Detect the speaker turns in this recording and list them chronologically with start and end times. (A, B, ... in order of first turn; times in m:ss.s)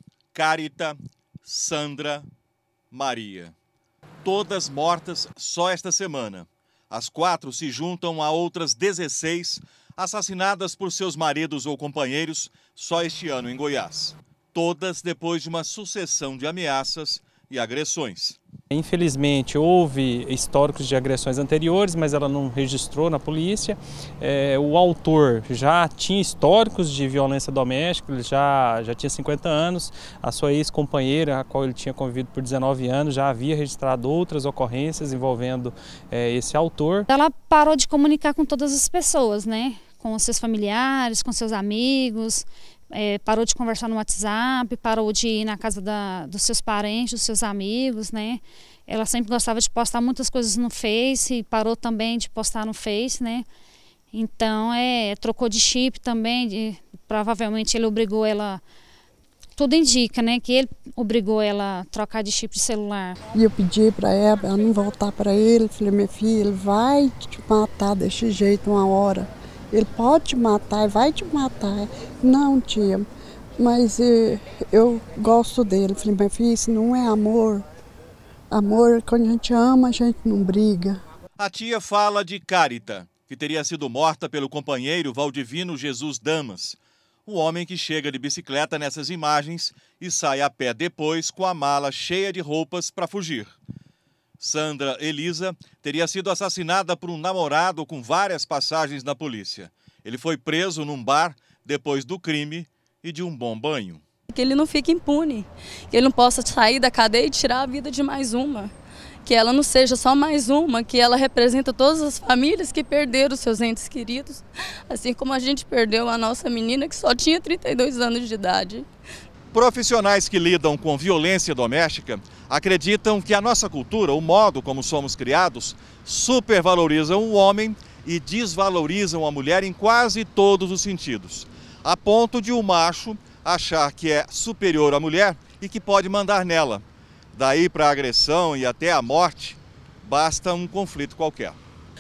0:00.3-0:02.3 A
0:02.9-0:03.5 A
0:04.2-0:18.4 A
0:18.7-0:37.1 B
0:37.1-0:53.5 C
0:54.1-0:58.6 C
0:59.6-1:03.2 C
1:03.3-1:13.1 D
1:13.6-1:17.6 D
1:18.5-1:21.0 D
1:21.4-1:33.6 A
1:34.4-1:44.0 A
1:44.3-1:48.7 E
1:49.3-1:58.9 E
1:59.5-2:21.6 A